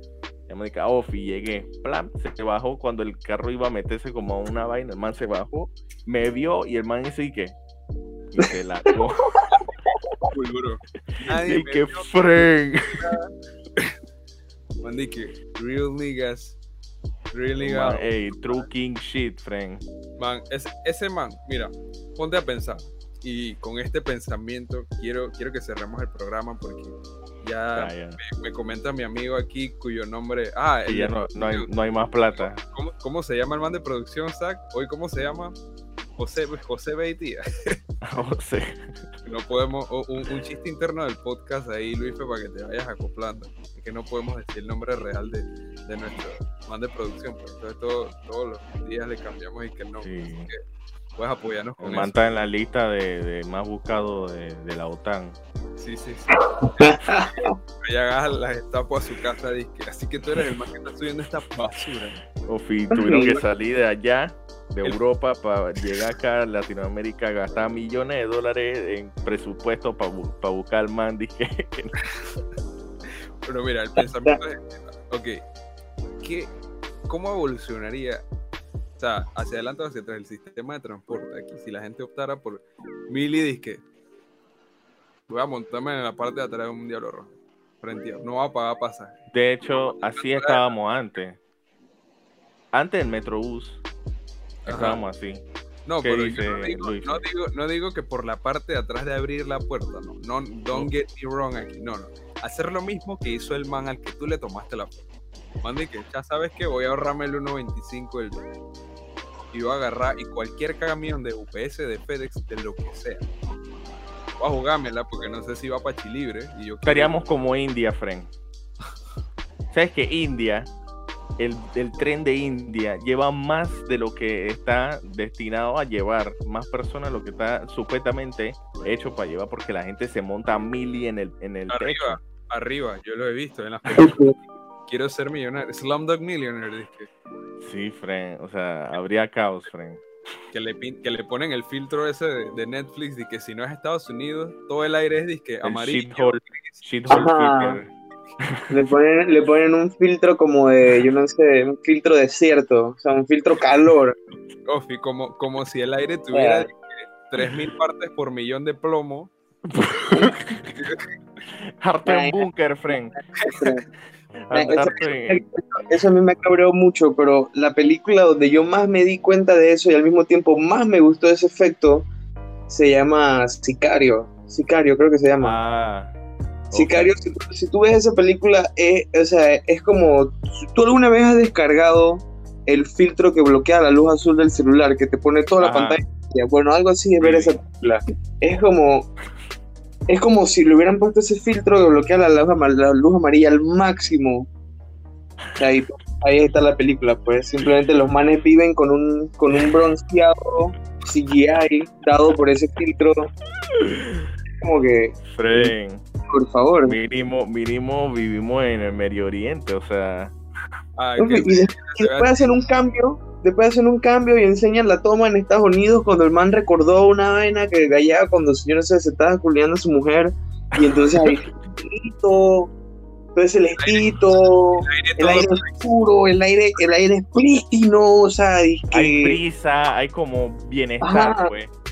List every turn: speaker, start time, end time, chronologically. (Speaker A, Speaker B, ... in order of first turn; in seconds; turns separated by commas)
Speaker A: 0.5-7.5, Speaker A: 8.3-9.4, Speaker B: 9.5-13.9, Speaker A: 11.1-13.1, Speaker B: 14.8-16.6, Speaker B: 17.3-18.6, Speaker A: 17.6-19.8, Speaker B: 20.2-31.7, Speaker A: 27.7-28.2, Speaker A: 30.9-32.6, Speaker B: 32.3-35.5, Speaker B: 36.2-37.8, Speaker A: 38.0-39.0, Speaker B: 39.2-50.6, Speaker A: 50.0-50.5, Speaker B: 51.1-52.1, Speaker A: 51.8-55.4, Speaker B: 55.8-62.2, Speaker C: 56.5-57.5, Speaker A: 62.4-72.0, Speaker C: 62.9-63.4, Speaker B: 73.4-75.4, Speaker C: 74.0-74.4, Speaker B: 76.2-76.5, Speaker B: 77.1-78.2, Speaker B: 79.0-83.8, Speaker B: 85.3-89.1, Speaker A: 89.3-91.4, Speaker B: 90.1-90.6, Speaker A: 92.7-93.8, Speaker A: 94.6-95.4, Speaker B: 94.6-95.0, Speaker B: 95.8-105.0, Speaker A: 96.0-97.2, Speaker B: 105.6-108.5, Speaker B: 109.5-113.2, Speaker B: 114.4-117.1, Speaker A: 116.8-118.3, Speaker A: 119.7-120.7, Speaker A: 121.4-132.2, Speaker B: 131.7-134.3, Speaker C: 133.9-134.3, Speaker B: 134.9-137.1, Speaker A: 137.6-140.0, Speaker B: 140.5-147.3, Speaker A: 145.6-148.7, Speaker C: 147.1-147.8, Speaker C: 148.7-154.2, Speaker B: 154.7-159.3, Speaker C: 156.3-156.7, Speaker A: 159.7-160.7, Speaker B: 160.7-161.0, Speaker A: 161.8-163.2, Speaker C: 162.0-162.4, Speaker B: 163.4-163.7, Speaker C: 163.4-163.8, Speaker A: 164.4-165.4, Speaker C: 164.5-172.1, Speaker C: 172.7-175.6, Speaker A: 175.4-176.1, Speaker A: 176.7-177.1, Speaker C: 176.7-189.1, Speaker A: 185.6-186.0, Speaker A: 187.2-187.6, Speaker C: 190.1-194.5, Speaker C: 195.6-203.3, Speaker A: 203.8-204.3, Speaker C: 204.6-205.7, Speaker A: 205.3-206.0, Speaker C: 206.3-207.0, Speaker A: 206.8-210.3, Speaker B: 210.9-212.5, Speaker C: 211.2-222.7, Speaker A: 220.9-221.4, Speaker C: 223.3-229.4, Speaker B: 223.8-224.1, Speaker B: 224.8-225.8, Speaker A: 228.9-231.7, Speaker C: 231.0-231.5